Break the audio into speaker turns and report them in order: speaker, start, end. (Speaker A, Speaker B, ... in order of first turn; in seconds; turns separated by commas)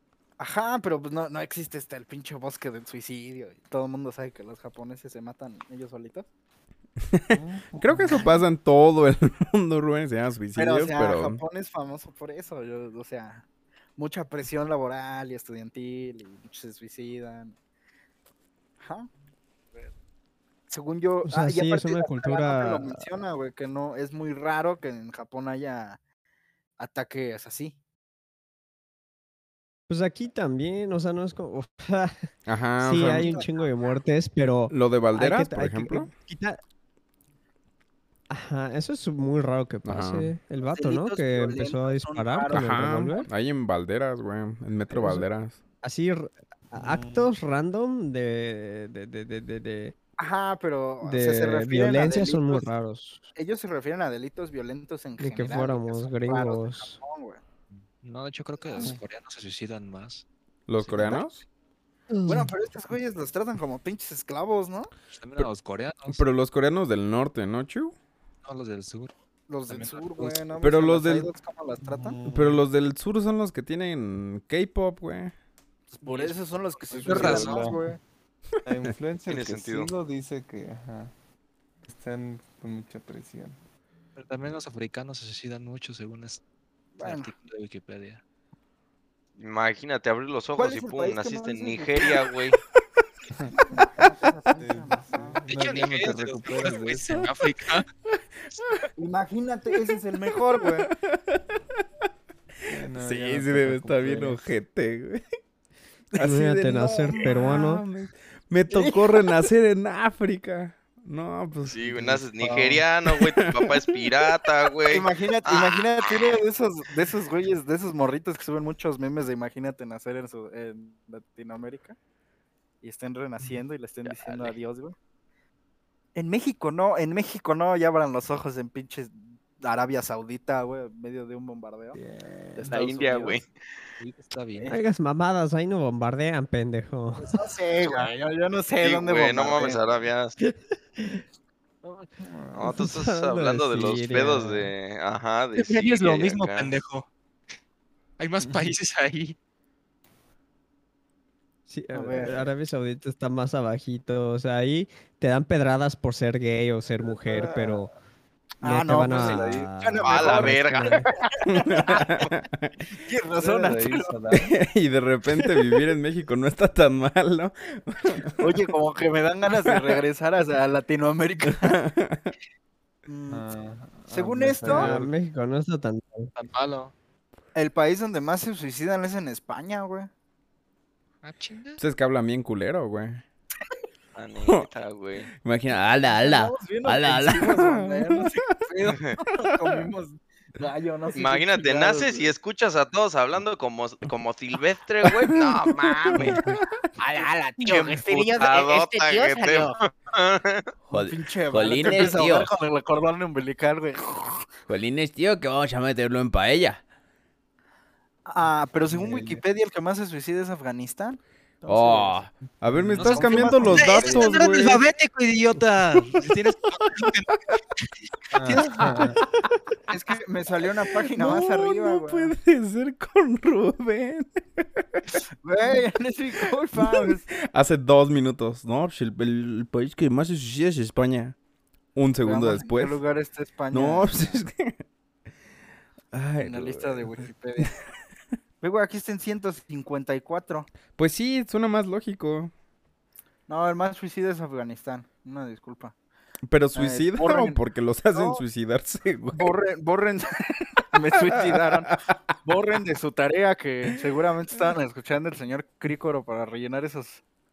Speaker A: 0.4-6.3, Speaker B: 7.1-11.4, Speaker C: 7.3-8.3, Speaker A: 10.6-13.4, Speaker A: 14.0-17.6, Speaker A: 18.8-19.1, Speaker A: 20.7-26.0, Speaker D: 21.2-23.0, Speaker A: 26.8-27.8, Speaker D: 29.9-36.6, Speaker B: 32.5-33.4, Speaker A: 33.1-33.5, Speaker B: 34.7-36.1, Speaker D: 38.3-43.3, Speaker B: 39.8-40.3, Speaker A: 40.7-43.3, Speaker B: 42.5-45.6, Speaker D: 45.0-45.2, Speaker D: 45.8-49.9, Speaker C: 46.8-47.3, Speaker A: 50.2-52.6, Speaker D: 51.0-53.2, Speaker A: 53.3-57.4, Speaker D: 55.2-57.0, Speaker E: 58.0-60.2, Speaker B: 60.7-61.4, Speaker E: 60.8-61.2, Speaker A: 62.2-64.9, Speaker E: 65.1-66.2, Speaker B: 66.1-67.9, Speaker E: 68.4-69.1, Speaker A: 69.5-72.2, Speaker E: 69.7-70.4, Speaker B: 70.6-71.3, Speaker C: 71.8-72.6, Speaker B: 72.3-75.3, Speaker E: 76.0-76.4, Speaker A: 76.0-78.0, Speaker E: 76.9-77.7, Speaker C: 76.9-78.0, Speaker C: 78.6-81.1, Speaker F: 79.3-79.9, Speaker C: 81.8-83.6, Speaker E: 84.2-86.4, Speaker A: 87.0-87.3, Speaker E: 87.0-88.2, Speaker F: 89.4-92.6, Speaker A: 90.5-92.2, Speaker A: 93.7-95.4, Speaker C: 94.6-97.4, Speaker E: 95.5-97.8, Speaker A: 99.0-100.9, Speaker B: 100.3-101.5, Speaker C: 102.7-104.4, Speaker B: 102.9-105.2, Speaker B: 106.1-112.3, Speaker D: 106.2-107.8, Speaker A: 108.7-109.3, Speaker F: 111.6-116.4, Speaker B: 113.0-114.3, Speaker A: 114.9-122.0, Speaker A: 122.8-124.9, Speaker F: 124.0-124.5, Speaker A: 126.1-132.0, Speaker C: 131.9-132.9, Speaker F: 132.6-133.5, Speaker A: 133.0-133.3, Speaker E: 134.0-134.7, Speaker D: 134.7-137.4, Speaker A: 137.2-139.8, Speaker F: 138.8-140.3, Speaker D: 140.4-141.2, Speaker C: 142.2-142.8, Speaker F: 142.5-146.7, Speaker D: 142.6-144.7, Speaker E: 145.6-147.1, Speaker E: 148.2-149.3, Speaker C: 148.4-148.7, Speaker D: 151.7-157.9, Speaker A: 151.9-152.4, Speaker C: 157.0-157.9, Speaker A: 158.6-160.6, Speaker D: 158.6-161.1, Speaker C: 159.1-159.7, Speaker F: 160.0-161.2, Speaker A: 161.3-162.2, Speaker B: 161.5-162.7, Speaker A: 162.9-164.1, Speaker C: 163.4-164.5, Speaker B: 164.3-168.6, Speaker A: 168.4-171.8, Speaker B: 171.5-172.3, Speaker A: 173.1-173.4, Speaker C: 173.3-175.1, Speaker A: 174.1-174.9, Speaker D: 174.7-176.3, Speaker E: 176.3-176.9, Speaker A: 177.5-180.1, Speaker E: 181.2-181.8, Speaker B: 181.8-183.2, Speaker F: 184.1-185.3, Speaker B: 185.4-188.4, Speaker A: 186.1-192.3, Speaker F: 188.8-189.2, Speaker B: 189.3-189.8, Speaker F: 191.1-196.4, Speaker B: 195.0-196.4, Speaker G: 197.2-199.7, Speaker F: 197.6-200.7, Speaker B: 200.9-202.5, Speaker A: 200.9-204.5, Speaker B: 204.7-206.8, Speaker A: 208.2-212.2, Speaker C: 208.9-209.4, Speaker B: 211.7-214.8, Speaker C: 212.7-213.8, Speaker E: 212.9-217.4, Speaker A: 213.1-214.5, Speaker C: 218.3-219.2, Speaker E: 218.5-218.9, Speaker A: 219.9-222.3, Speaker B: 221.1-225.2, Speaker A: 225.4-227.3, Speaker B: 226.8-231.3, Speaker B: 231.9-233.0, Speaker A: 232.2-234.4, Speaker B: 233.7-234.8, Speaker B: 236.1-237.2, Speaker A: 236.4-237.7, Speaker A: 238.6-240.7, Speaker B: 241.0-242.5, Speaker A: 243.5-245.9, Speaker B: 246.4-249.5, Speaker A: 246.7-247.6, Speaker A: 248.1-248.4, Speaker A: 249.3-257.2, Speaker B: 251.4-252.2